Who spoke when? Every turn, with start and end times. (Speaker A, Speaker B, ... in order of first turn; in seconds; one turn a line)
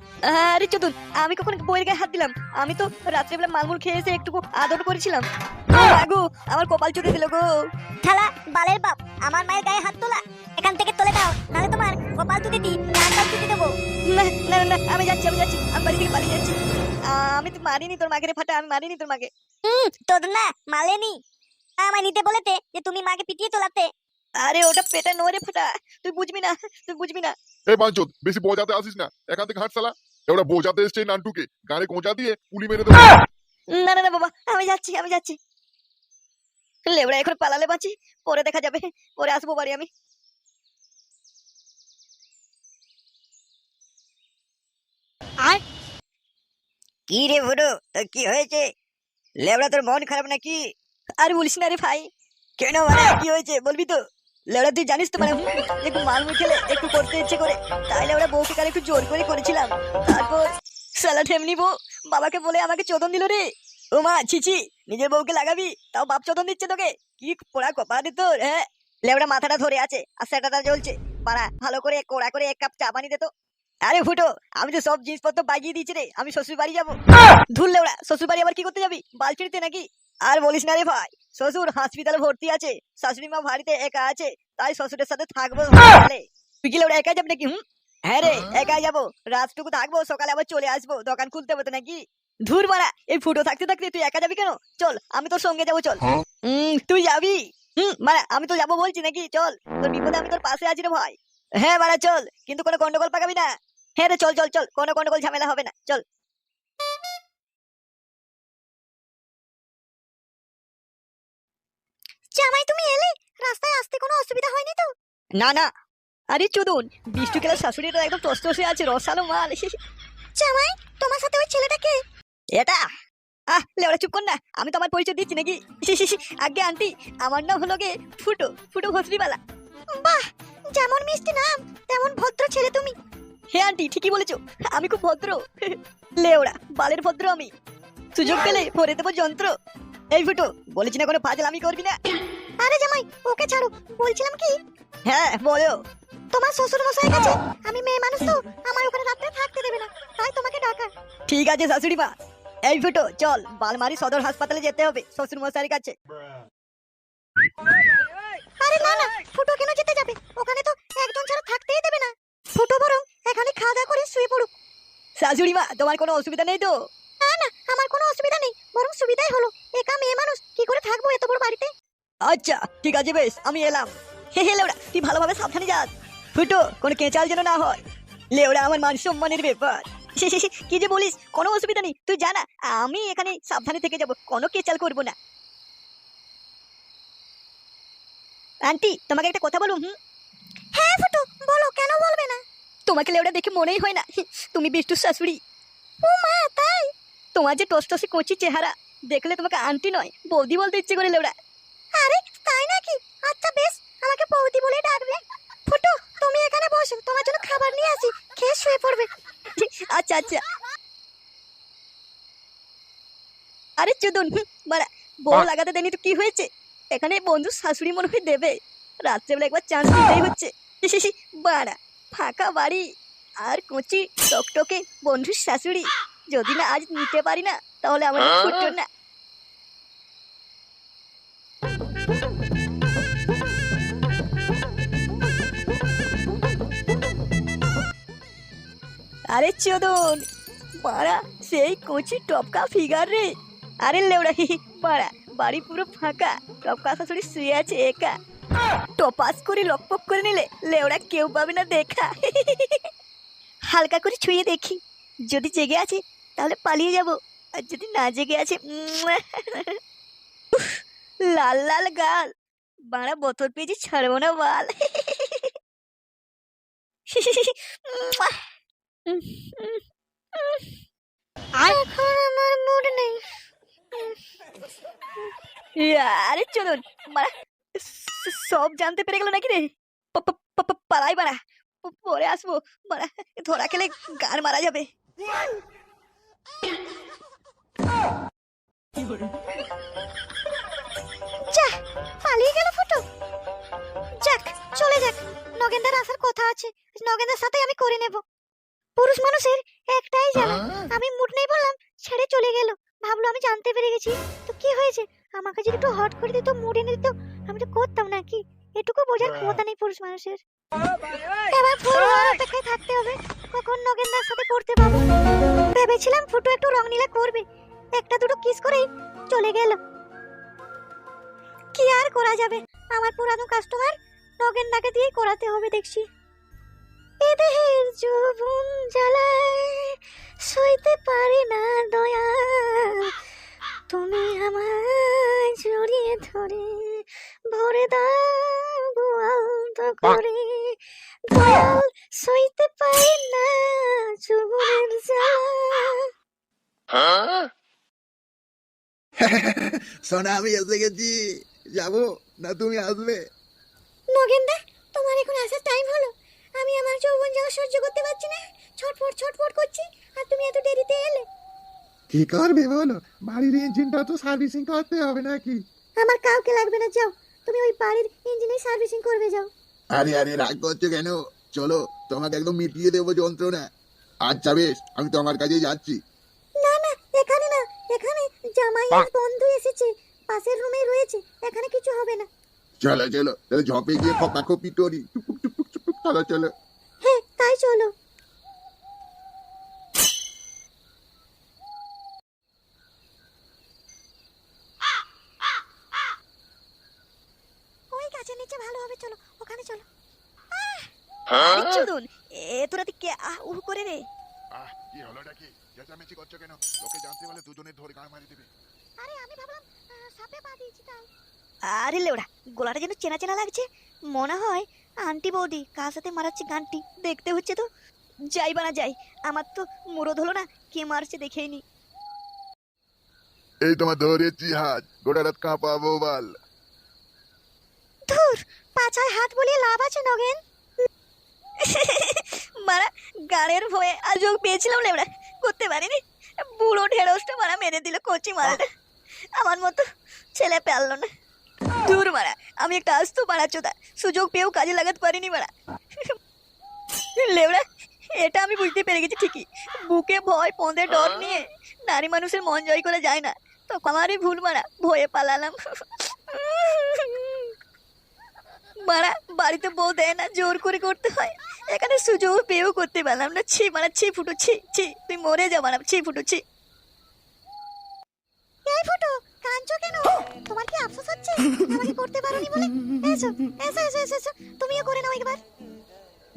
Speaker A: 0.2-7.4
Speaker B: 8.0-13.7
Speaker A: 14.1-16.6
Speaker A: 17.1-19.3
Speaker B: 19.6-21.2
Speaker B: 21.8-23.9
Speaker A: 24.4-27.3
Speaker C: 27.7-33.2
Speaker A: 33.7-35.4
Speaker A: 36.9-39.9
Speaker A: 47.1-48.7
Speaker A: 49.4-50.6
Speaker A: 51.2-52.1
Speaker A: 52.6-54.0
Speaker A: 54.5-73.3
Speaker A: 73.8-77.0
Speaker A: 77.5-106.0
Speaker D: 112.3-114.9
Speaker A: 115.4-115.7
Speaker A: 116.3-119.7
Speaker D: 120.4-122.0
Speaker A: 123.5-129.4
Speaker D: 129.9-130.2
Speaker D: 130.7-132.9
Speaker A: 133.5-137.5
Speaker A: 138.1-139.5
Speaker D: 138.2-138.7
Speaker A: 140.1-141.9
Speaker D: 142.6-144.5
Speaker A: 145.1-145.8
Speaker D: 146.3-150.9
Speaker A: 151.3-152.1
Speaker A: 152.7-155.9
Speaker D: 158.6-164.5
Speaker A: 165.2-166.7
Speaker D: 167.2-171.7
Speaker A: 172.3-177.8
Speaker A: 178.3-185.1
Speaker A: 188.7-189.9
Speaker D: 190.7-192.4
Speaker A: 192.9-195.4
Speaker D: 196.0-196.9
Speaker A: 197.3-201.3
Speaker D: 202.0-209.1
Speaker A: 209.6-210.4
Speaker A: 213.8-222.9
Speaker A: 223.4-228.9
Speaker A: 239.3-240.3
Speaker A: 240.8-248.2
Speaker A: 249.0-252.9
Speaker A: 253.7-259.8
Speaker A: 260.5-262.3
Speaker A: 262.9-265.5
Speaker A: 267.1-268.4
Speaker A: 269.1-269.8
Speaker A: 270.4-270.7
Speaker D: 271.6-273.2
Speaker A: 275.8-284.9
Speaker D: 292.2-293.0
Speaker D: 294.2-298.2
Speaker D: 299.0-310.4
Speaker D: 311.5-315.0
Speaker D: 315.7-317.4
Speaker D: 318.0-319.8
Speaker D: 321.7-326.1
Speaker D: 327.3-328.4
Speaker A: 327.9-329.9
Speaker D: 330.5-332.1
Speaker A: 330.9-333.0
Speaker A: 333.9-337.0
Speaker A: 337.6-340.6
Speaker D: 341.3-343.4
Speaker D: 344.3-345.8
Speaker E: 349.3-349.6
Speaker E: 350.1-351.1
Speaker E: 351.8-353.2
Speaker D: 354.1-361.2
Speaker E: 362.1-365.5
Speaker F: 362.2-362.4
Speaker D: 366.0-369.5
Speaker E: 369.9-373.6
Speaker E: 374.3-375.9
Speaker D: 376.6-382.3
Speaker E: 382.9-386.4
Speaker D: 387.0-387.9
Speaker D: 397.9-399.9
Speaker D: 400.6-400.8
Speaker A: 401.3-404.0
Speaker F: 404.5-408.4
Speaker E: 406.1-408.4
Speaker D: 409.0-411.1
Speaker A: 411.7-417.6
Speaker A: 418.3-421.6
Speaker F: 423.6-426.3
Speaker D: 428.1-430.4
Speaker A: 431.6-438.6
Speaker A: 439.4-439.8
Speaker A: 440.3-441.1
Speaker A: 441.8-445.5
Speaker A: 447.2-447.6
Speaker A: 448.1-457.5
Speaker A: 458.8-466.4
Speaker D: 468.6-475.4